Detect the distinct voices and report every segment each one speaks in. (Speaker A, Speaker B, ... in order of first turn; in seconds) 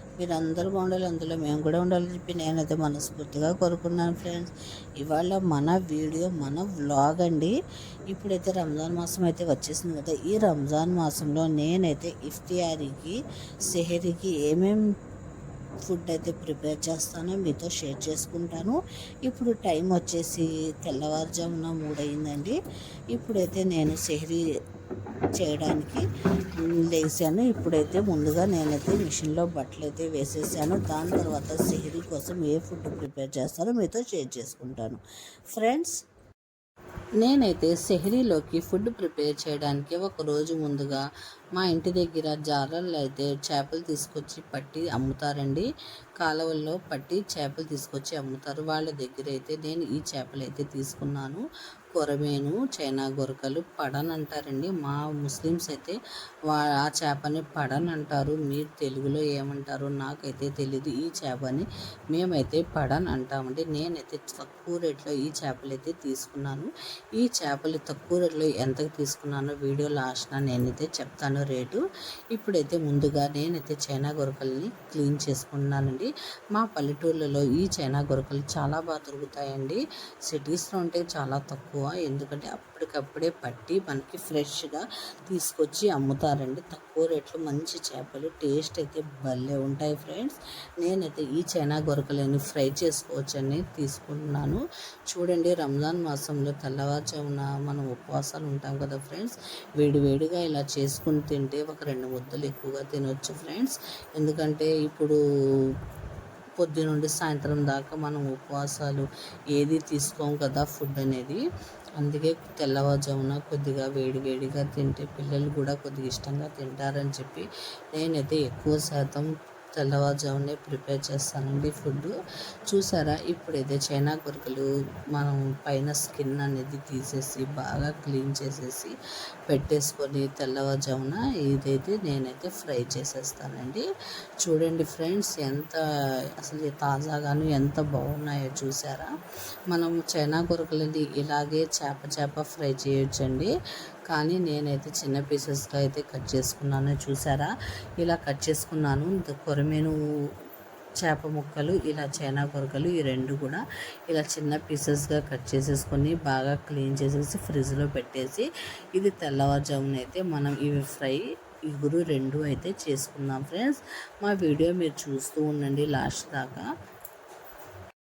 Speaker A: 0.2-7.5, 8.1-13.2, 13.7-14.8, 15.9-22.6, 23.1-24.4, 25.4-26.1, 26.9-35.0, 35.5-36.0, 37.2-41.0, 41.6-45.7, 46.2-51.4, 51.9-56.0, 56.5-105.2, 106.6-111.4, 112.0-122.1, 122.7-128.9, 129.5-133.8, 134.4-135.8, 136.4-139.1, 139.7-143.5, 144.1-149.9, 151.0-166.7